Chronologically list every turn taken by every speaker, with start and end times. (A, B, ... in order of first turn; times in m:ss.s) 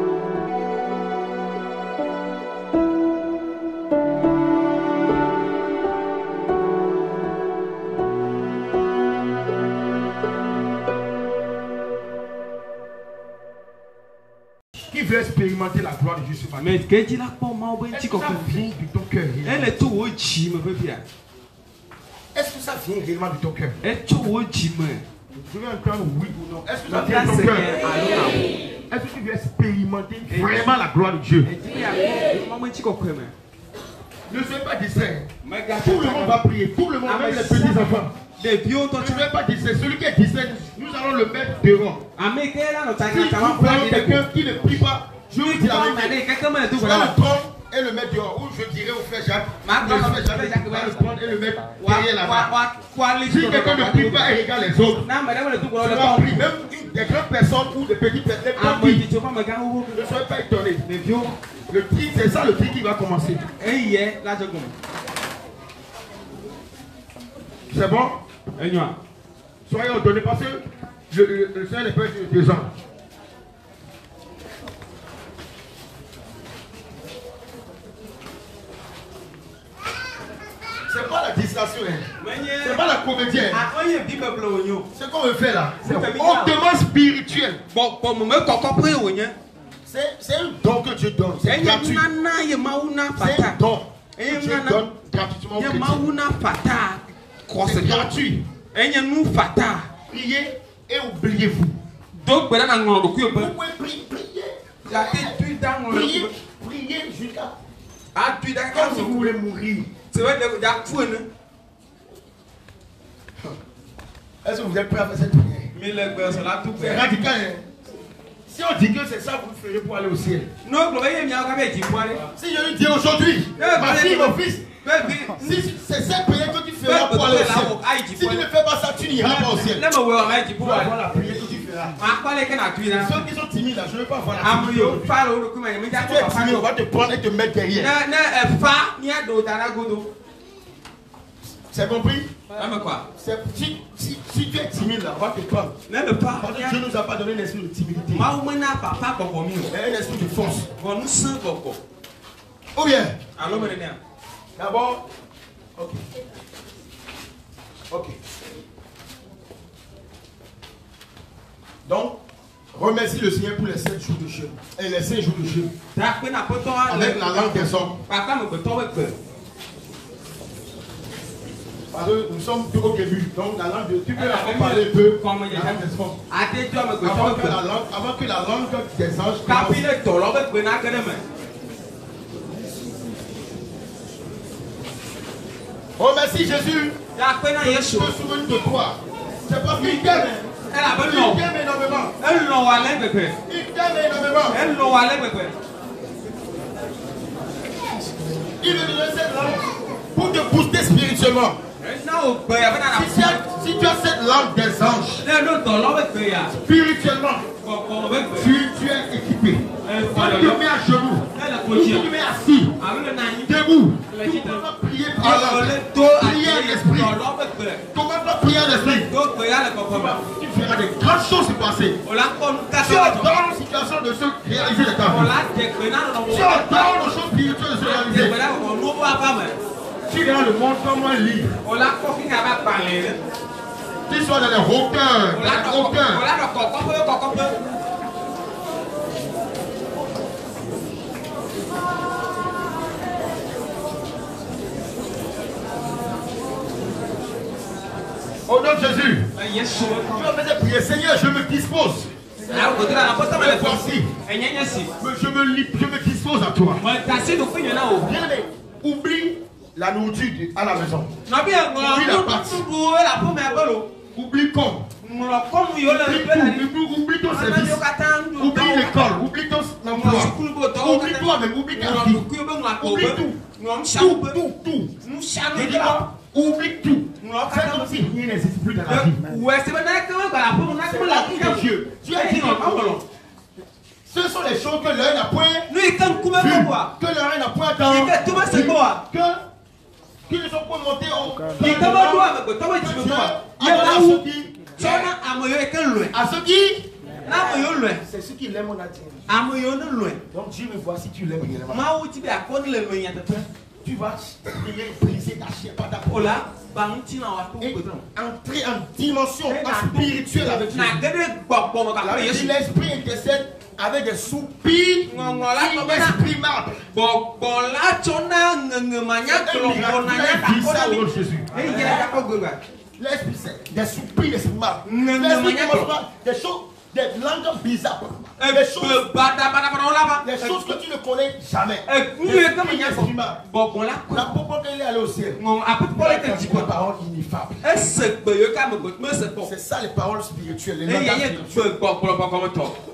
0:14.9-0:16.8 A
0:16.6-0:18.6 B
0:17.9-0:19.8 A
0:19.4-0:21.0 B
0:22.3-0:23.8 A
0:23.8-0:25.0 B
0:25.3-0:27.7 A
0:26.9-0:28.5 B
0:28.9-0:31.5 A
0:30.3-0:30.7 B
0:31.4-0:33.3 B
0:34.3-0:38.1 A
0:35.4-0:36.4 B
0:37.0-0:37.8 B
0:38.4-0:39.3 B
0:39.0-0:42.0 A
0:42.2-0:44.2 B
0:43.0-0:46.2 A
0:45.4-0:47.2 B
0:46.7-0:52.5 A
0:49.6-0:51.1 B
0:51.8-0:54.3 B
0:53.2-0:55.1 A
0:55.0-0:56.4 B
0:55.8-0:59.1 A
0:58.6-1:00.2 B
0:59.9-1:00.8 A
1:00.8-1:01.3 B
1:01.7-1:03.4 A
1:03.6-1:04.7 B
1:07.7-1:08.2 A
1:08.6-1:09.0 B
1:09.7-1:12.7 A
1:20.9-1:23.6 A
1:22.2-1:23.0 B
1:23.5-1:24.9 B
1:25.0-1:27.6 A
1:25.8-1:26.6 B
1:27.7-1:29.4 B
1:29.9-1:32.1 A
1:31.4-1:33.6 B
1:33.2-1:36.1 A
1:34.2-1:34.8 B
1:35.6-1:38.1 B
1:37.6-1:38.4 A
1:38.7-1:39.9 B
1:40.1-1:41.8 A
1:42.2-1:43.5 B
1:43.2-1:47.6 A
1:44.8-1:46.3 B
1:48.1-1:49.3 B
1:48.7-1:49.9 A
1:50.1-1:51.3 B
1:54.4-1:55.7 A
1:55.7-1:57.0 B
1:56.8-1:57.6 A
1:58.5-2:00.5 A
2:00.6-2:02.3 B
2:02.3-2:04.7 A
2:03.6-2:05.6 B
2:05.4-2:09.8 A
2:06.8-2:08.5 B
2:09.2-2:11.0 B
2:10.6-2:12.0 A
2:12.0-2:13.3 B
2:12.9-2:15.2 A
2:14.4-2:16.7 B
2:15.9-2:17.9 A
2:17.7-2:20.1 B
2:21.7-2:22.3 A
2:22.5-2:23.1 B
2:23.2-2:25.7 A
2:25.9-2:26.8 B
2:26.3-2:28.3 A
2:28.1-2:29.7 B
2:29.7-2:30.7 A
2:30.8-2:31.8 B
2:32.7-2:33.2 A
2:33.4-2:34.0 B
2:34.6-2:35.0 A
2:35.8-2:36.0 A
2:37.9-2:38.2 A
2:41.8-2:42.2 A
2:42.7-2:45.7 A
2:45.9-2:49.2 B
2:46.8-2:48.0 A
2:51.9-2:56.2 A
2:54.1-2:57.6 B
2:57.0-2:59.8 A
2:59.4-3:01.2 B
3:06.0-3:07.0 A
3:07.2-3:08.2 B
3:07.6-3:12.1 A
3:09.8-3:11.4 B
3:12.2-3:13.4 B
3:13.5-3:14.6 A
3:14.5-3:15.6 B
3:18.6-3:21.6 A
3:21.8-3:23.4 B
3:22.9-3:25.2 A
3:25.2-3:26.6 B
3:26.6-3:27.5 A
3:27.6-3:28.5 B
3:28.4-3:32.7 A
3:29.8-3:30.6 B
3:31.3-3:32.1 B
3:32.8-3:33.6 B
3:33.4-3:37.1 A
3:34.1-3:34.7 B
3:35.2-3:37.8 B
3:37.9-3:39.1 A
3:38.7-3:40.2 B
3:39.9-3:42.0 A
3:42.0-3:43.5 B
3:42.8-3:45.3 A
3:45.0-3:47.0 B
3:46.2-3:48.3 A
3:47.8-3:49.6 B
3:50.1-3:51.6 A
3:51.6-3:53.2 B
3:54.1-3:56.2 A
3:55.3-3:57.6 B
4:08.5-4:09.3 A
4:09.3-4:10.3 B
4:10.1-4:12.1 A
4:12.4-4:14.9 B
4:12.9-4:14.1 A
4:15.0-4:16.8 A
4:16.8-4:18.1 B
4:18.0-4:21.1 A
4:21.3-4:23.9 B
4:21.8-4:22.6 A
4:24.1-4:24.8 A
4:25.0-4:26.7 B
4:25.8-4:27.8 A
4:27.3-4:29.1 B
4:28.4-4:33.4 A
4:29.9-4:34.4 B
4:33.9-4:34.9 A
4:35.0-4:36.1 B
4:35.5-4:39.3 A
4:37.2-4:38.0 B
4:38.9-4:43.0 B
4:40.8-4:43.0 A
4:44.1-4:49.4 A
4:45.7-4:46.9 B
4:47.8-4:49.0 B
4:50.3-4:55.1 A
4:51.6-4:54.2 B
4:54.7-4:56.1 B
4:56.1-4:57.4 A
4:57.2-4:58.0 B
4:57.9-4:59.2 A
4:59.3-5:00.2 B
5:00.3-5:01.8 A
5:01.7-5:03.5 B
5:03.8-5:06.4 A
5:06.1-5:08.1 B
5:07.6-5:11.0 A
5:09.4-5:12.5 B
5:12.0-5:16.9 A
5:15.1-5:16.2 B
5:16.9-5:22.6 B
5:19.3-5:22.1 A
5:23.0-5:29.0 A
5:24.8-5:25.9 B
5:28.4-5:30.6 B
5:30.2-5:33.4 A
5:31.8-5:34.4 B
5:34.1-5:35.4 A
5:35.4-5:36.7 B
5:35.9-5:38.0 A
5:37.6-5:39.5 B
5:39.4-5:41.5 A
5:40.8-5:42.8 B